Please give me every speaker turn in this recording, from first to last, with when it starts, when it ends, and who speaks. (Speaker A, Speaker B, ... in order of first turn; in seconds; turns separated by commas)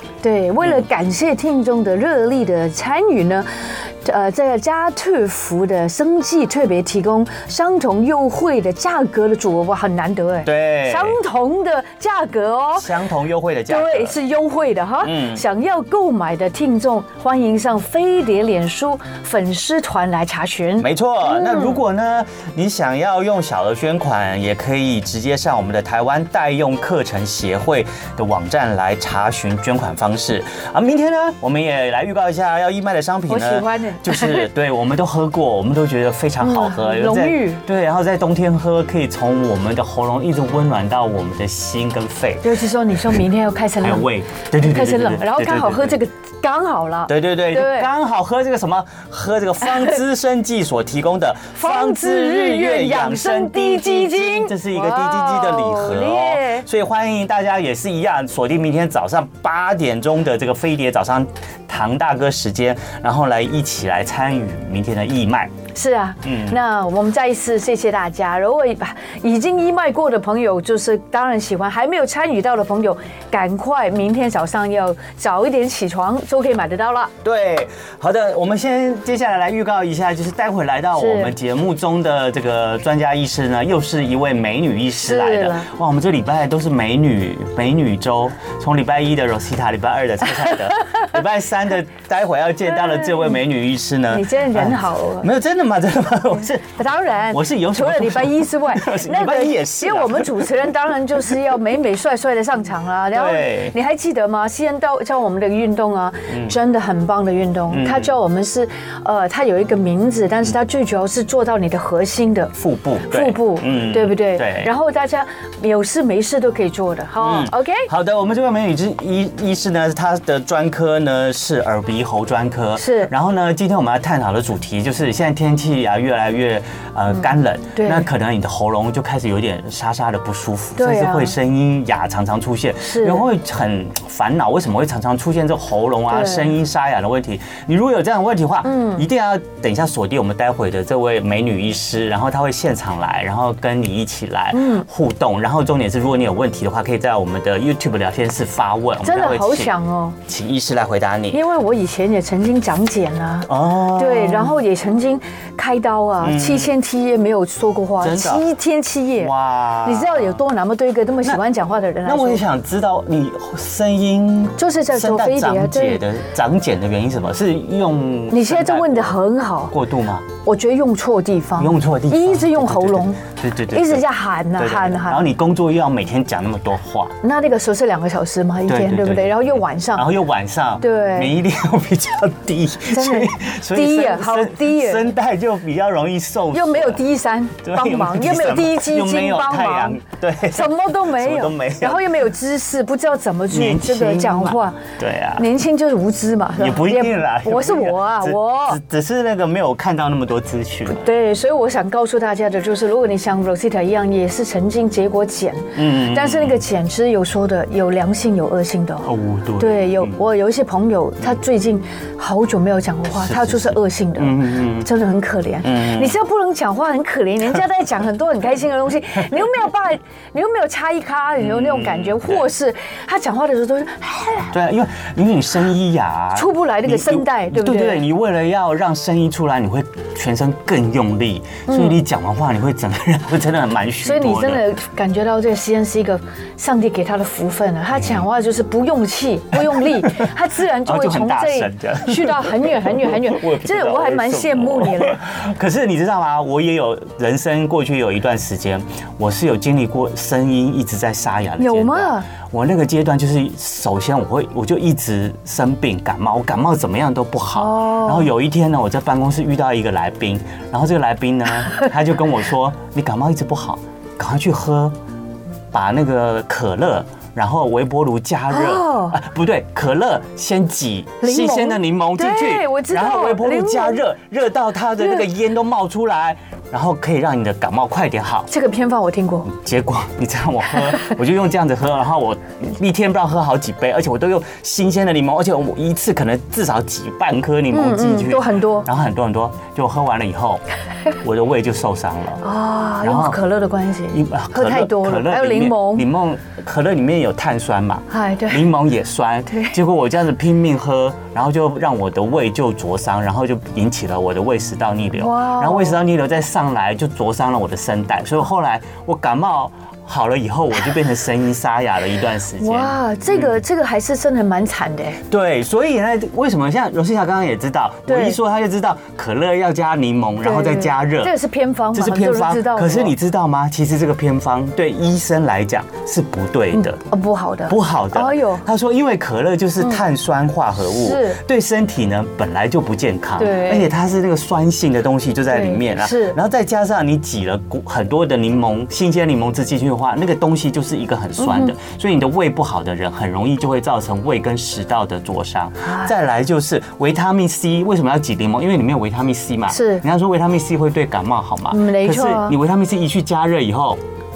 Speaker A: 0.2-12.9, Speaker B: 10.4-11.2, Speaker B: 12.8-14.2, Speaker A: 13.7-21.8, Speaker B: 15.0-15.4, Speaker B: 20.8-42.5, Speaker A: 33.3-34.5, Speaker A: 36.4-37.6, Speaker A: 42.4-44.0, Speaker B: 43.8-45.9, Speaker A: 44.6-47.9, Speaker B: 47.1-65.5, Speaker A: 51.5-56.6, Speaker A: 65.7-77.1, Speaker B: 66.2-66.6, Speaker B: 77.2-100.5, Speaker A: 81.0-81.3, Speaker A: 84.9-85.7, Speaker A: 92.7-93.4, Speaker A: 94.1-95.3, Speaker A: 96.6-112.5, Speaker B: 103.1-103.7, Speaker B: 106.3-106.5, Speaker B: 107.7-108.1, Speaker B: 112.5-114.7, Speaker A: 113.1-117.9, Speaker B: 117.2-149.7, Speaker A: 122.8-123.1, Speaker A: 127.7-128.1, Speaker A: 130.8-131.3, Speaker A: 132.8-133.2, Speaker A: 136.1-136.5, Speaker A: 138.6-139.1, Speaker A: 144.5-144.8, Speaker A: 149.0-150.2, Speaker B: 150.2-151.4, Speaker A: 151.3-159.3, Speaker B: 153.5-154.6, Speaker B: 156.2-156.7, Speaker B: 158.0-158.4, Speaker B: 159.2-160.4, Speaker A: 159.8-162.4, Speaker B: 162.0-170.2, Speaker A: 164.6-166.0, Speaker A: 168.3-169.7, Speaker A: 170.4-175.3, Speaker B: 171.6-177.1, Speaker A: 177.2-180.1, Speaker B: 178.7-187.0, Speaker A: 180.8-181.3, Speaker A: 182.9-185.1, Speaker A: 186.5-194.8, Speaker B: 187.6-192.0, Speaker B: 193.5-195.4, Speaker A: 195.4-198.8, Speaker B: 196.6-201.1, Speaker A: 200.9-224.5, Speaker B: 205.8-206.6, Speaker B: 209.0-210.2, Speaker B: 213.1-214.9, Speaker B: 215.6-216.2, Speaker B: 221.4-222.4, Speaker B: 224.5-234.6, Speaker A: 226.3-228.0, Speaker A: 231.7-232.0, Speaker A: 234.0-245.2, Speaker B: 237.9-238.2, Speaker B: 239.7-240.3, Speaker B: 240.8-264.9, Speaker A: 251.6-252.3, Speaker A: 257.5-258.3, Speaker B: 265.7-278.5, Speaker A: 268.5-269.1, Speaker A: 271.2-274.0, Speaker A: 278.5-279.5, Speaker B: 279.4-290.6, Speaker A: 287.7-288.9, Speaker B: 291.2-292.4, Speaker A: 292.4-296.1, Speaker B: 293.0-293.4, Speaker B: 294.1-313.5, Speaker A: 298.1-298.7, Speaker A: 299.5-299.7, Speaker A: 305.2-306.0, Speaker A: 312.6-315.2, Speaker B: 315.3-321.3, Speaker A: 318.1-318.4, Speaker A: 320.4-323.1, Speaker B: 321.9-327.0, Speaker A: 326.7-328.6, Speaker B: 327.7-354.0, Speaker A: 330.9-331.4, Speaker A: 333.4-333.9, Speaker A: 335.5-336.4, Speaker A: 341.4-341.7, Speaker A: 345.8-346.1, Speaker A: 349.7-350.0, Speaker A: 351.7-352.6